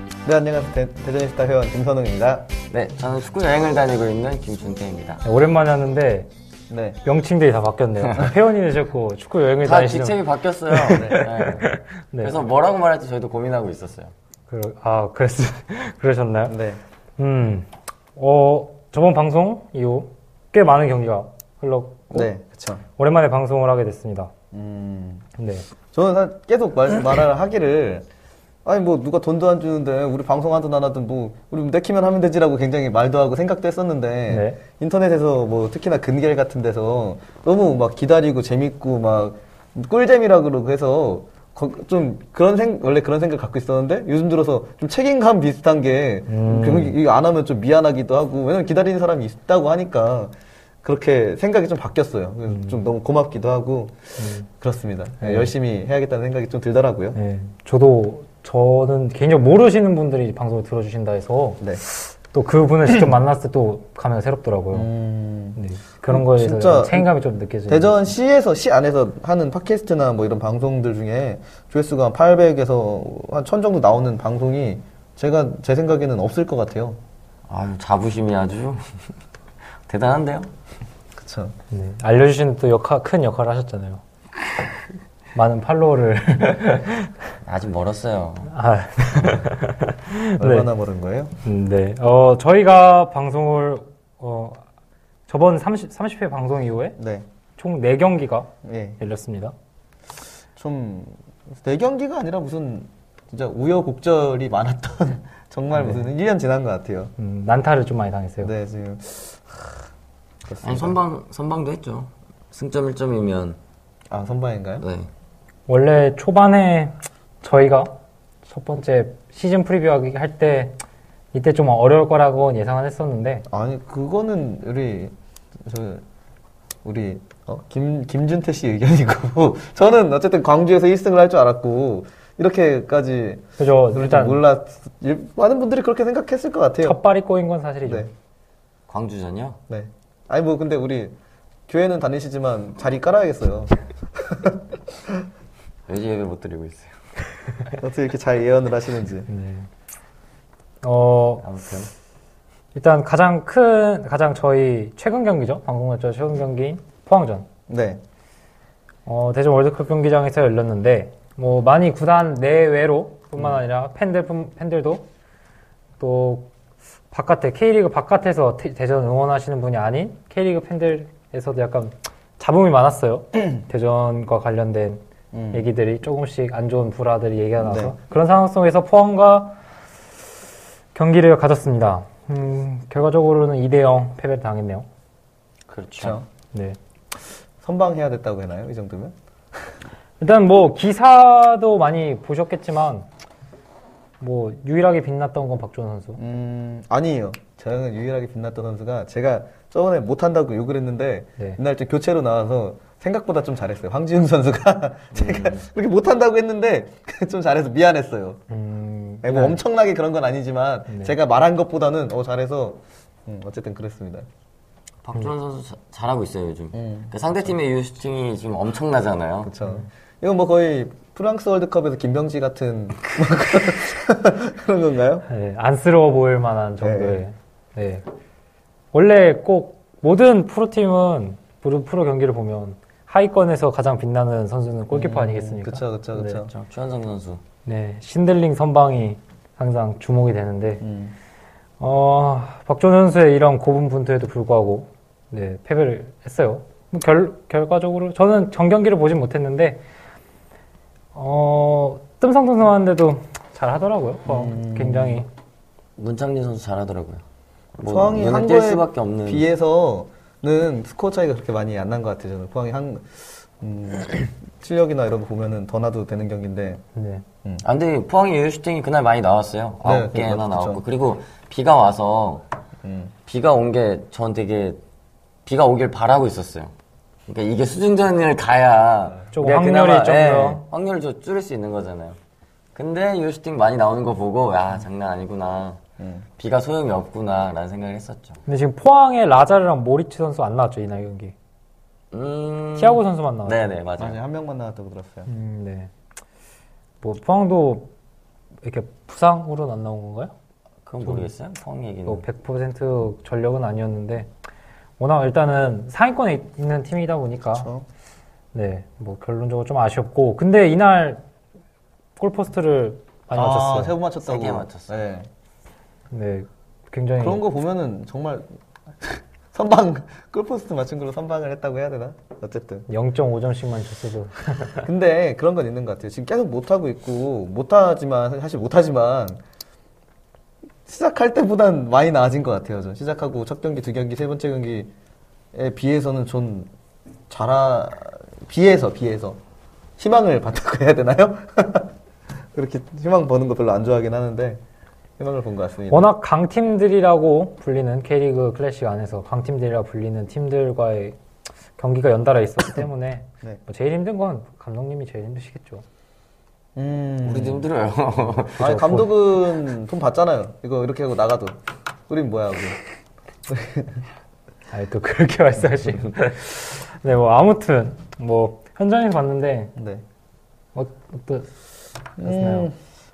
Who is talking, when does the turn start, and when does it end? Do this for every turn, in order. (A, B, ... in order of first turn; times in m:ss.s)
0:00.2-0:02.5 A
0:02.7-0:05.2 B
0:05.2-0:06.3 C
0:06.7-0:07.0 A
0:07.0-0:10.2 C
0:09.6-0:14.1 B
0:10.7-0:12.4 C
0:10.9-0:11.2 A
0:14.5-0:16.6 C
0:16.5-0:16.8 A
0:17.2-0:22.3 C
0:22.1-0:22.8 A
0:23.0-0:24.3 C
0:24.5-0:25.3 A
0:25.4-0:25.7 C
0:25.9-0:28.1 A
0:28.6-0:57.2 A
0:34.3-0:34.6 C
0:46.3-0:47.0 C
0:52.5-0:52.8 C
0:54.2-0:54.5 C
0:55.2-0:55.5 C
0:57.2-1:04.9 C
1:04.7-1:07.1 A
1:05.6-1:08.1 C
1:07.7-1:17.0 A
1:17.5-1:18.9 B
1:19.9-1:20.5 B
1:21.2-1:21.6 A
1:21.7-1:24.0 C
1:25.4-1:27.1 C
1:27.4-1:28.5 B
1:28.5-1:30.7 C
1:30.4-1:31.3 A
1:31.4-1:34.6 C
1:35.3-1:37.0 C
1:37.0-1:37.3 A
1:37.6-1:39.5 C
1:38.6-1:39.0 A
1:40.6-1:47.1 A
1:45.7-1:46.0 C
1:47.2-1:48.5 C
1:48.4-1:49.8 A
1:50.5-1:51.0 A
1:50.6-1:53.6 B
1:54.1-1:54.8 A
1:54.8-1:55.1 B
1:55.7-2:00.8 C
2:01.3-2:03.5 C
2:03.5-2:05.1 A
2:05.6-2:06.0 A
2:06.8-2:17.0 A
2:13.6-2:14.4 C
2:16.8-2:18.1 C
2:17.9-2:18.1 A
2:18.9-2:19.6 B
2:19.7-2:21.2 A
2:21.7-2:25.3 A
2:25.9-2:27.0 B
2:27.8-2:29.3 A
2:29.3-2:29.7 C
2:30.8-2:31.6 C
2:31.4-2:31.9 B
2:32.8-2:37.5 C
2:37.7-2:38.0 A
2:39.1-2:45.1 C
2:46.0-2:46.5 C
2:47.1-2:55.0 C
2:55.3-2:55.6 A
2:55.5-2:59.6 C
2:57.6-2:57.9 A
3:01.0-3:04.9 C
3:05.7-3:06.2 B
3:06.0-3:06.3 A
3:07.6-3:09.2 A
3:10.2-3:13.1 C
3:14.2-3:16.2 C
3:16.2-3:28.4 A
3:25.1-3:25.6 B
3:28.5-3:29.6 C
3:29.2-3:34.3 A
3:30.9-3:31.2 C
3:35.0-3:39.5 B
3:36.7-3:37.1 A
3:39.4-3:45.3 A
3:45.3-3:48.1 C
3:46.8-3:47.2 A
3:48.9-3:56.4 C
3:54.9-3:56.5 A
3:56.5-3:57.4 B
3:57.6-4:00.8 C
4:00.8-4:01.2 A
4:01.8-4:09.8 C
4:11.2-4:15.3 C
4:14.3-4:15.2 A
4:16.0-4:17.2 B
4:17.8-4:19.5 B
4:17.9-4:26.8 A
4:27.0-4:27.2 C
4:27.6-4:32.4 B
4:29.8-4:30.8 A
4:32.8-4:33.1 A
4:33.3-4:34.8 B
4:35.5-4:36.7 B
4:37.3-4:42.2 B
4:39.3-4:40.6 C
4:42.8-4:45.8 B
4:46.0-4:46.3 A
4:46.4-4:48.4 B
4:48.5-4:51.3 C
4:52.1-4:54.2 B
4:52.8-4:53.7 C
4:54.0-4:55.3 A
4:55.3-4:55.9 C
4:57.0-4:57.9 C
4:58.6-5:00.3 C
5:00.9-5:02.2 B
5:01.0-5:01.3 C
5:02.1-5:04.3 C
5:05.0-5:07.7 C
5:07.6-5:07.9 A
5:08.5-5:11.2 C
5:12.2-5:14.0 C
5:13.3-5:15.3 A
5:14.2-5:14.9 B
5:16.1-5:17.4 C
5:17.2-5:18.5 A
5:19.0-5:22.9 A
5:22.9-5:24.9 C
5:24.8-5:29.4 A
5:30.9-5:34.9 A
5:35.5-5:36.7 A
5:37.3-5:39.4 A
5:40.0-5:41.9 A
5:42.5-5:44.6 A
5:45.2-5:46.1 A
5:45.9-5:51.2 C
5:51.8-5:55.8 C
5:56.8-5:57.7 A
5:57.2-5:58.8 B
5:58.6-6:01.6 A
5:58.6-5:59.1 C
6:02.1-6:02.8 A
6:03.5-6:04.0 A
6:04.7-6:09.7 C
6:09.8-6:10.0 A
6:10.8-6:11.5 C
6:12.2-6:12.7 A
6:12.2-6:12.7 C